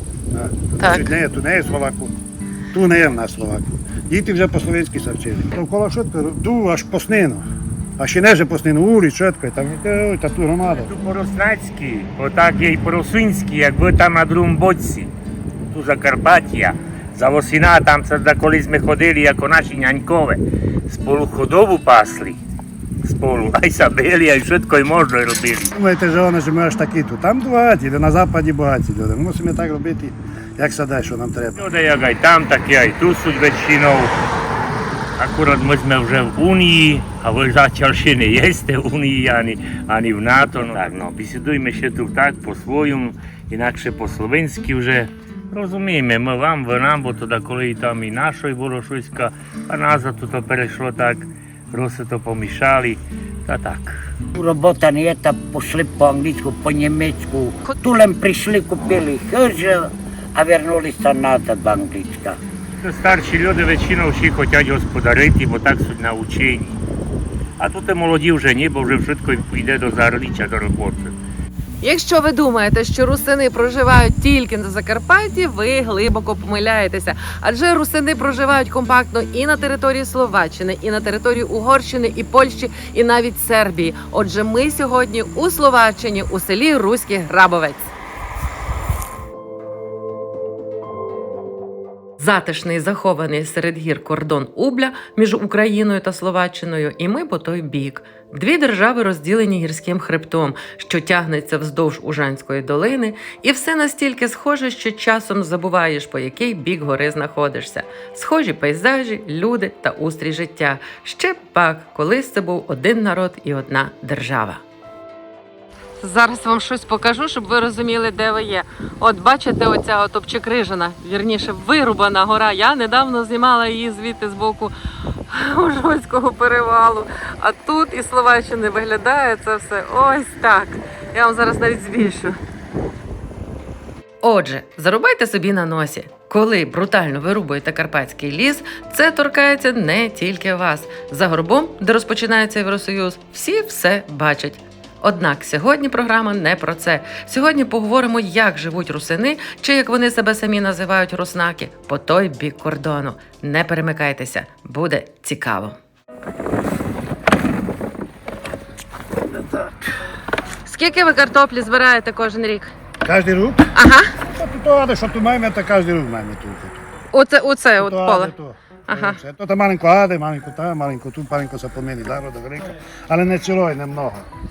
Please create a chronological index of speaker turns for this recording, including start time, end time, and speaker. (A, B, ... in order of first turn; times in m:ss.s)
0:00.3-0:02.1 A
0:00.8-0:01.1 B
0:02.7-0:07.4 A
0:08.0-0:10.9 A
0:10.6-0:15.1 C
0:15.7-0:22.4 C
0:23.0-0:25.7 C
0:25.7-0:31.7 A
0:31.6-0:34.1 C
0:35.2-0:54.1 C
0:54.3-1:02.4 D
1:02.8-1:06.8 C
1:07.6-1:11.1 C
1:11.8-1:27.9 B
1:32.2-1:54.6 B
1:56.0-2:04.7 B
2:05.3-2:12.4 B
2:14.2-2:35.8 B
2:40.6-2:42.7 B
2:43.0-2:43.7 A
2:43.7-2:44.1 B
2:44.3-2:46.8 A
2:47.1-2:48.3 B
2:47.8-2:54.3 A
2:48.9-2:49.2 B